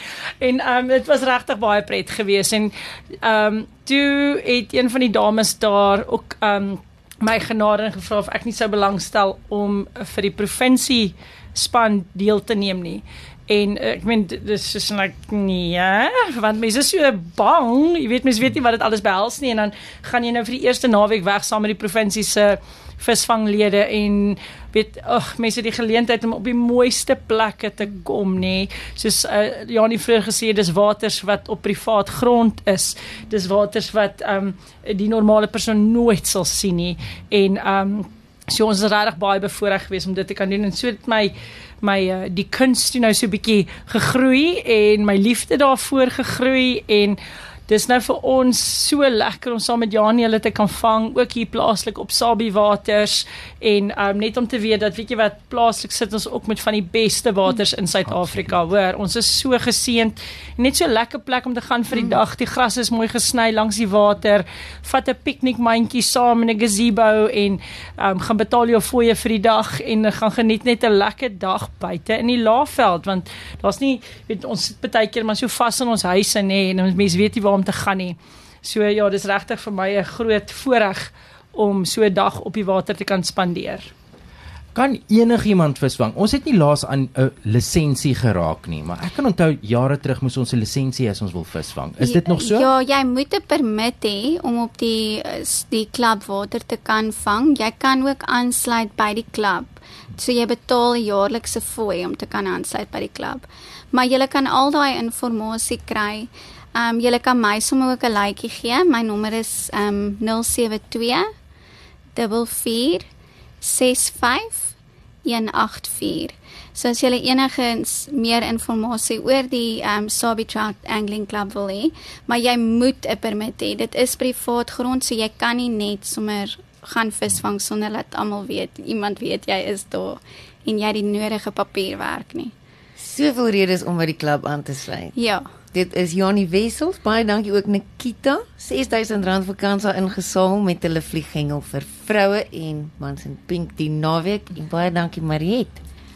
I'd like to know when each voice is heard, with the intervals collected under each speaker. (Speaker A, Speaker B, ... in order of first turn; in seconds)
Speaker A: 0.4-83.9
Speaker B: 58.1-58.5, 84.7-92.7
Speaker C: 92.0-111.3, 112.1-113.1, 113.6-114.7, 115.2-132.5, 135.1-135.6
Speaker D: 133.0-135.1, 135.6-145.8